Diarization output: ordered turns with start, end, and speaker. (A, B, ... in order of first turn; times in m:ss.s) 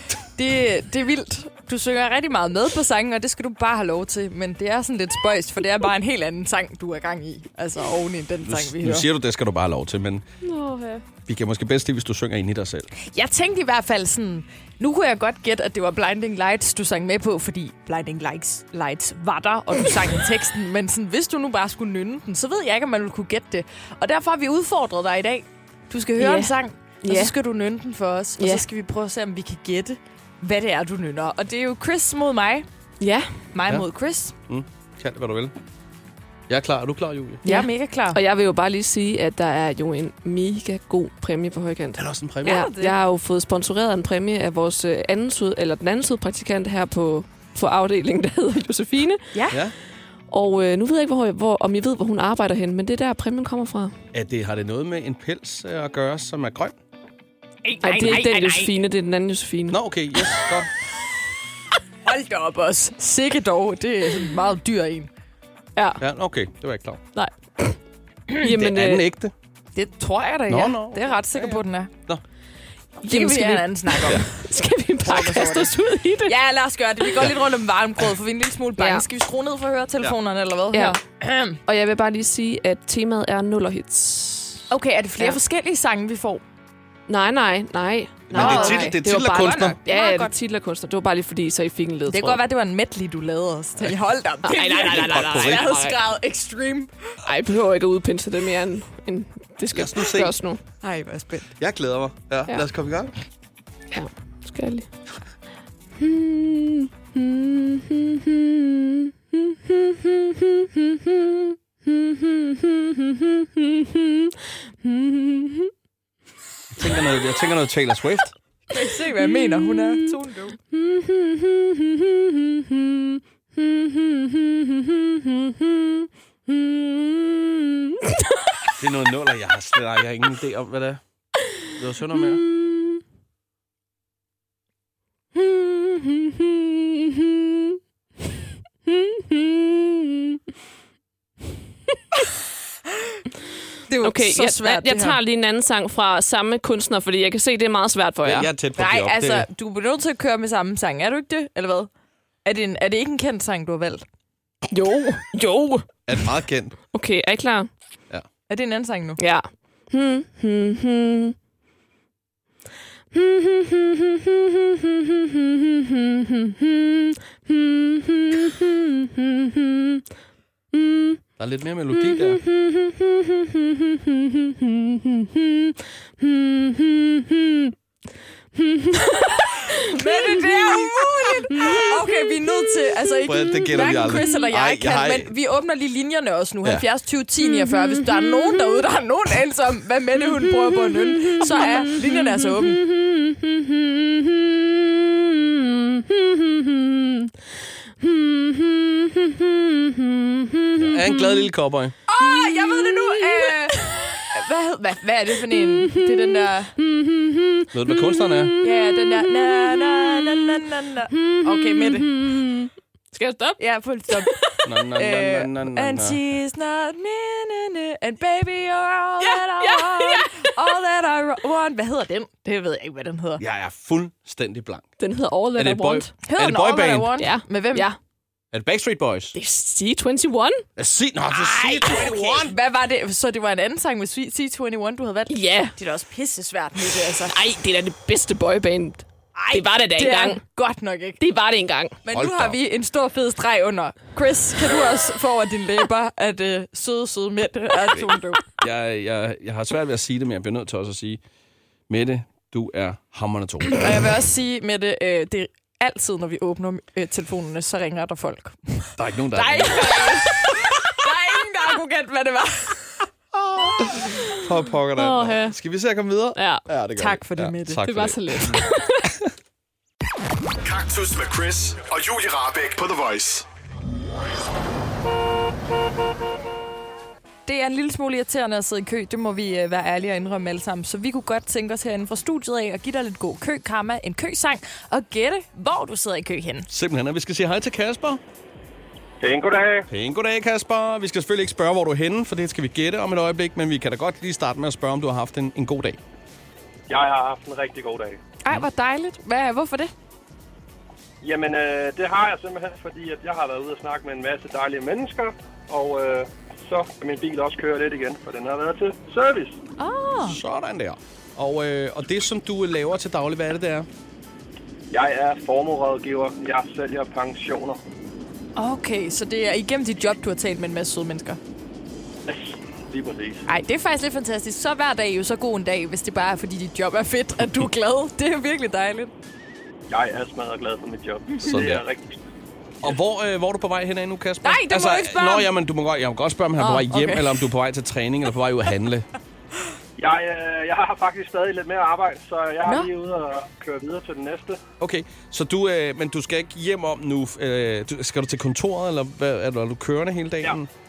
0:00.4-0:09.1 A
0:08.4-0:10.2 B
0:10.4-0:11.0 C
0:11.2-0:12.9 B
0:13.0-0:32.7 A
0:26.2-0:27.3 C
0:28.4-0:28.6 C
0:33.0-0:33.4 C
0:33.5-0:34.3 A
0:34.5-0:35.5 B
0:36.5-0:37.4 B
0:37.4-0:38.2 A
0:37.4-0:49.4 C
0:42.0-0:42.7 B
0:42.4-0:43.0 A
0:49.3-0:49.6 A
0:50.3-0:53.9 C
0:54.1-0:56.7 B
0:57.6-0:58.7 A
0:57.8-0:59.8 C
0:59.7-1:00.7 B
1:02.0-1:05.1 A
1:06.0-1:07.0 B
1:07.2-1:07.8 C
1:08.4-1:09.0 C
1:08.4-1:09.3 B
1:09.7-1:11.9 A
1:10.5-1:12.2 B
1:13.0-1:14.4 A
1:13.0-1:16.3 C
1:15.0-1:21.6 A
1:18.8-1:19.0 C
1:20.7-1:21.0 C
1:21.6-1:24.6 C
1:24.7-1:26.4 A
1:27.1-1:32.4 C
1:28.3-1:29.8 B
1:28.3-1:30.3 A
1:32.1-1:36.9 A
1:34.4-1:36.0 C
1:34.7-1:35.7 B
1:37.2-1:40.6 C
1:39.7-1:40.3 B
1:40.8-1:41.5 A
1:41.6-1:43.1 B
1:43.9-1:44.9 C
1:46.0-1:54.3 C
1:54.8-1:55.7 C
1:56.7-1:58.3 B
1:58.7-2:00.6 A
1:59.2-1:59.9 C
2:00.7-2:02.0 C
2:03.6-2:04.6 C
2:05.1-2:05.5 C
2:06.5-2:07.3 C
2:08.8-2:11.0 B
2:11.7-2:12.4 B
2:18.9-2:19.9 C
2:23.9-2:25.2 A
2:24.0-2:28.5 C
2:28.2-2:29.5 B
2:28.7-2:31.9 A
2:32.4-2:34.0 A
2:34.7-2:35.8 C
2:36.1-2:36.8 B
2:36.9-2:37.7 C
2:38.5-2:39.2 A
2:39.2-2:41.3 C
2:43.1-2:44.0 C
2:45.9-2:50.0 C
2:50.7-2:51.1 C
2:51.4-2:52.4 B
2:52.1-2:57.5 C
2:59.5-3:12.8 A
3:00.2-3:00.9 C
3:03.2-3:05.3 B
3:20.8-3:22.0 B
3:22.1-3:26.7 A
3:22.2-3:23.2 C
3:25.6-3:27.5 C
3:27.7-3:28.6 B
3:28.4-3:30.4 C
3:28.6-3:32.2 A
3:31.1-3:34.3 C
3:33.6-3:43.4 A
3:34.6-3:36.2 B
3:39.2-3:40.5 C
3:43.4-3:44.9 B
3:45.0-3:46.1 C
3:45.6-3:47.2 B
3:46.2-3:47.9 A
3:47.2-3:48.0 C
3:48.5-3:49.3 B
3:49.3-3:50.6 C
3:50.8-3:52.5 B
3:51.3-3:57.4 A
3:55.3-3:55.7 C
3:57.3-4:00.4 C
3:59.3-4:01.2 A
4:01.2-4:02.0 C
4:02.0-4:08.5 A
4:02.1-4:02.6 B
4:08.6-4:11.2 B
4:11.9-4:13.8 B
4:13.7-4:23.0 A
4:19.0-4:20.0 B
4:23.4-4:28.6 B
4:25.0-4:25.6 C
4:26.3-4:26.6 C
4:27.0-4:28.0 A
4:27.8-4:29.0 C
4:30.6-4:33.4 D
4:37.4-4:46.7 A
4:46.7-4:48.2 B
4:49.2-4:49.9 E
4:49.9-4:56.0 B
4:56.9-4:58.2 E
4:58.4-4:59.9 A
5:01.2-5:09.6 E
5:09.8-5:10.4 A
5:10.2-5:13.9 B
5:14.9-5:17.8 E
5:18.6-5:21.4 A
5:22.3-5:23.4 E
5:23.5-5:29.1 A
5:29.9-5:32.2 E
5:31.4-5:31.8 B
5:32.8-5:39.1 B
5:34.4-5:35.5 A
5:36.6-5:37.4 A
5:40.0-5:44.6 E
5:44.8-5:50.7 B